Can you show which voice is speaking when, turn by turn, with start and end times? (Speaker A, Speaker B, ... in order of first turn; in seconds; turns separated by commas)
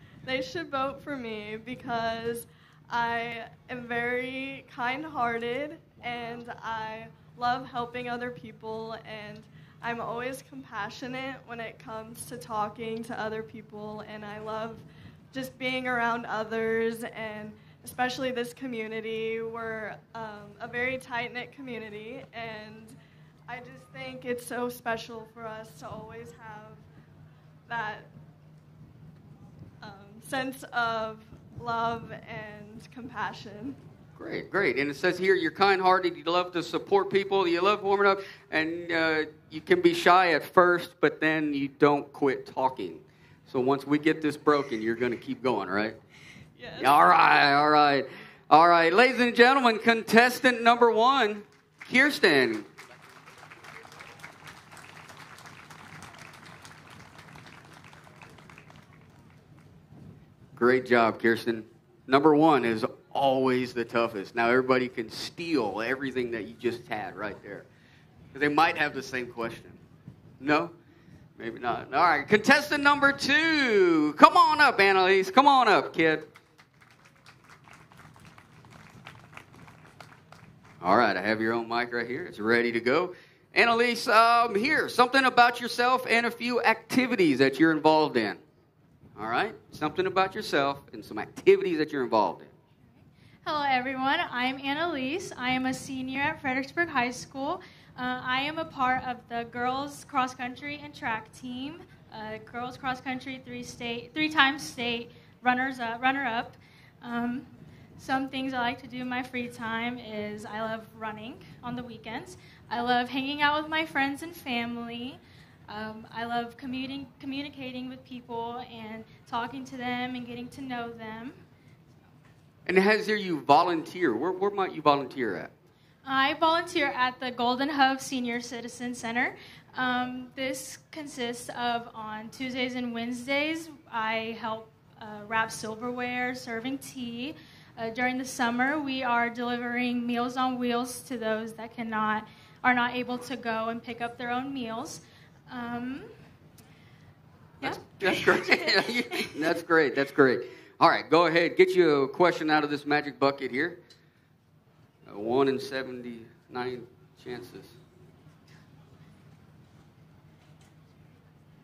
Speaker A: 0.3-23.0, Speaker A: 23.5-26.9, Speaker A: 27.7-28.1, Speaker A: 29.8-33.8, Speaker B: 34.2-46.0, Speaker A: 46.6-47.1, Speaker B: 46.8-52.7, Speaker B: 60.6-67.7, Speaker B: 68.3-69.8, Speaker B: 70.4-70.7, Speaker B: 71.4-76.3, Speaker B: 80.8-88.4, Speaker B: 89.2-92.5, Speaker C: 93.5-121.4, Speaker B: 122.7-125.5, Speaker C: 126.0-146.1, Speaker C: 147.6-148.7, Speaker B: 147.6-153.8, Speaker B: 155.1-157.8